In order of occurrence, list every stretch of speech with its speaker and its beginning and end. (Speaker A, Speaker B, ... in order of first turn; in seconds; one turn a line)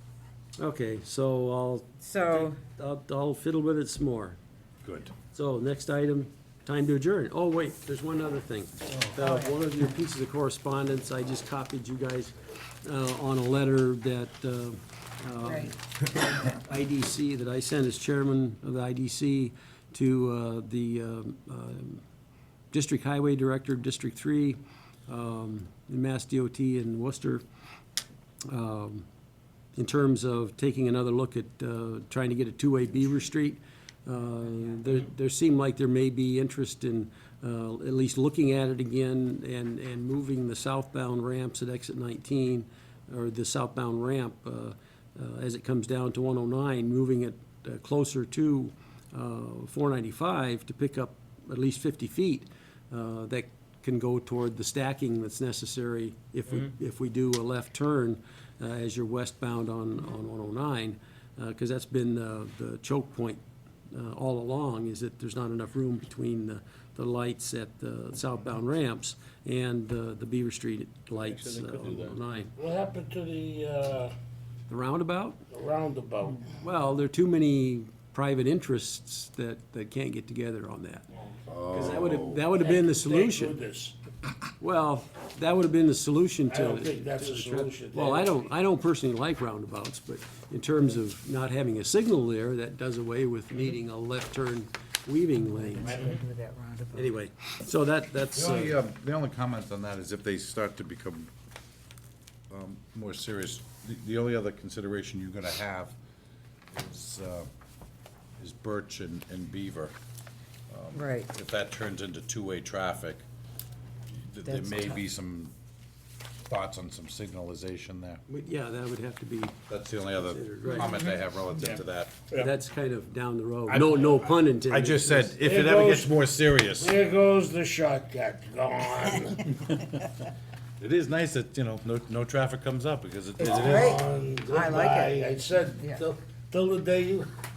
Speaker A: 0.6-4.4
Speaker B: 2.0-2.6
Speaker C: 4.8-5.1
Speaker A: 5.3-22.0
Speaker B: 9.2-9.5
Speaker B: 15.4-15.7
Speaker A: 22.7-27.4
Speaker A: 28.4-29.1
Speaker A: 29.7-72.5
Speaker D: 72.5-74.1
Speaker A: 74.7-75.4
Speaker D: 75.5-76.6
Speaker A: 76.5-81.1
Speaker C: 81.5-82.4
Speaker A: 81.7-83.6
Speaker D: 82.3-84.0
Speaker A: 84.6-96.0
Speaker D: 86.5-88.4
Speaker B: 95.6-97.1
Speaker D: 95.8-96.2
Speaker A: 96.9-98.8
Speaker C: 98.3-101.3
Speaker C: 102.5-106.0
Speaker C: 106.7-107.5
Speaker C: 108.4-109.9
Speaker C: 110.7-113.2
Speaker B: 110.9-111.3
Speaker C: 114.2-115.5
Speaker B: 114.4-115.0
Speaker C: 116.5-118.2
Speaker A: 118.3-119.6
Speaker C: 119.7-122.3
Speaker A: 120.2-121.0
Speaker B: 120.7-121.1
Speaker D: 121.6-122.5
Speaker A: 122.3-125.3
Speaker C: 123.7-126.9
Speaker D: 125.3-129.8
Speaker C: 130.8-134.0
Speaker B: 133.4-135.2
Speaker D: 133.4-137.3